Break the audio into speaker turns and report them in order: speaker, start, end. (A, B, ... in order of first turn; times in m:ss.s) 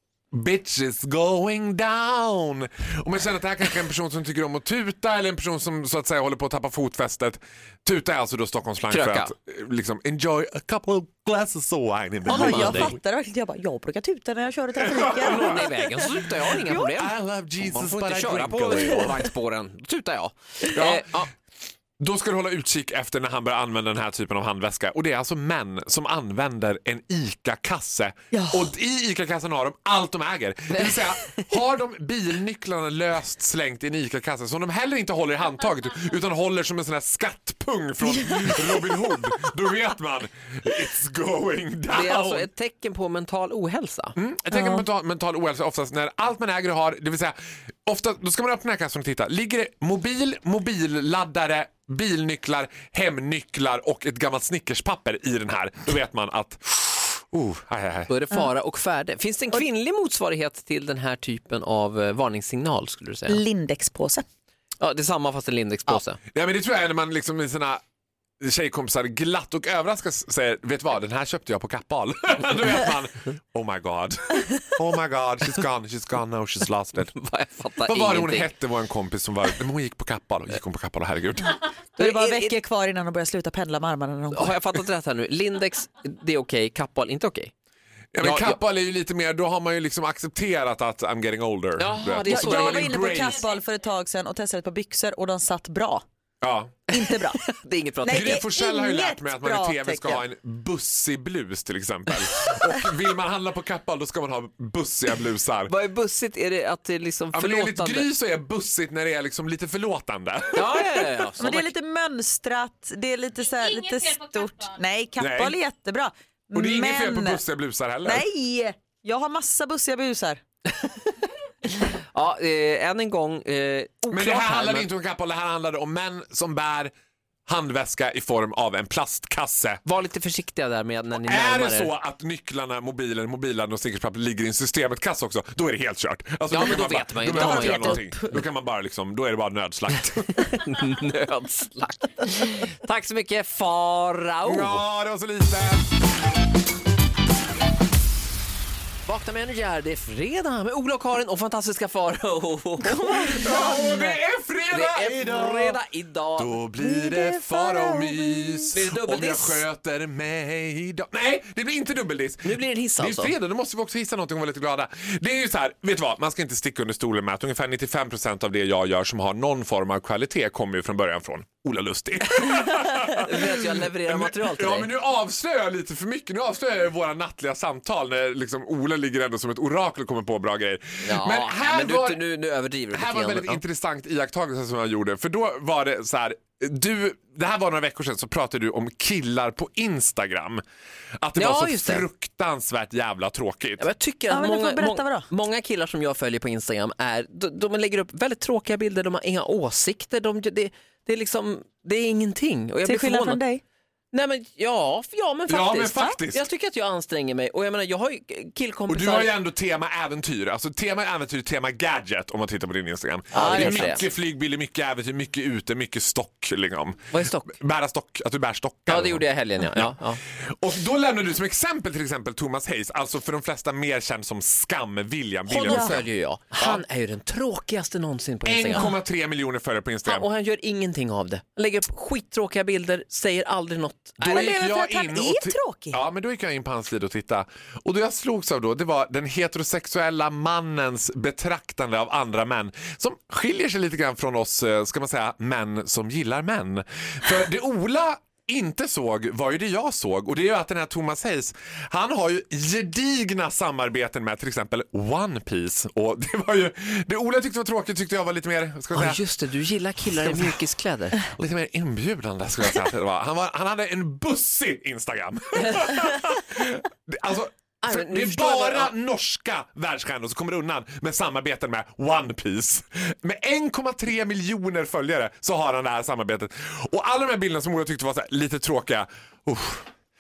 0:00.3-0:13.0 A
0:08.9-0:09.3 B
0:12.3-0:15.8 C
0:12.3-0:12.9 B
0:14.9-0:15.6 A
0:15.2-0:21.3 B
0:16.7-0:19.3 A
0:20.7-0:21.2 A
0:22.0-0:42.5 A
0:28.3-0:28.7 C
0:41.9-0:44.2 B
0:44.2-0:58.1 A
0:44.5-0:44.8 C
0:58.1-1:03.4 B
1:03.3-1:04.2 C
1:04.8-1:06.2 B
1:06.3-1:07.8 A
1:08.4-1:17.1 A
1:17.2-1:18.5 B
1:17.9-1:21.6 A
1:22.0-1:24.6 C
1:22.0-1:22.6 B
1:24.3-1:27.5 B
1:28.1-1:33.4 A
1:28.2-1:28.6 B
1:31.8-1:33.1 B
1:32.3-1:36.0 C
1:36.4-1:36.8 A
1:36.9-1:37.4 C
1:37.0-1:38.4 B
1:38.0-1:40.2 C
1:38.1-1:45.7 A
1:45.7-1:48.1 B
1:47.3-1:51.3 A
1:50.5-1:51.7 B
1:51.4-1:57.4 C
1:55.2-1:55.6 A
1:56.5-1:58.3 A
1:58.0-2:00.4 C
2:01.8-2:04.9 B
2:04.1-2:06.9 A
2:07.5-2:09.8 A
2:09.8-2:11.9 B
2:11.2-2:20.4 A
2:16.5-2:18.4 B
2:17.4-2:18.0 C
2:20.4-2:24.8 B
2:24.4-2:25.9 A
2:29.1-2:33.7 B
2:32.8-2:34.2 C
2:33.4-2:35.8 A
2:34.7-2:36.6 B
2:36.4-3:02.2 A
2:36.8-2:38.7 C
2:38.7-2:39.6 B
2:42.4-2:43.3 B
2:53.0-2:54.9 B
3:01.0-3:03.6 B
3:02.9-3:10.6 A
3:11.2-3:13.9 A
3:11.4-3:12.1 B
3:13.8-3:23.4 B
3:14.3-3:15.3 C
3:22.8-3:23.6 C
3:24.1-3:29.3 B
3:25.5-3:26.4 A
3:28.9-3:46.8 A
3:33.3-3:34.1 B
3:33.4-3:33.7 C
3:37.1-3:37.5 B
3:38.9-3:40.2 B
3:45.5-3:48.9 B
3:45.7-3:46.0 C
3:48.4-3:50.3 A
3:50.1-3:54.6 B
3:54.2-4:19.3 A
3:54.2-3:56.0 C
4:18.9-4:21.2 B
4:20.0-4:20.7 A
4:21.2-4:39.9 A
4:25.6-4:25.8 B
4:27.8-4:28.9 B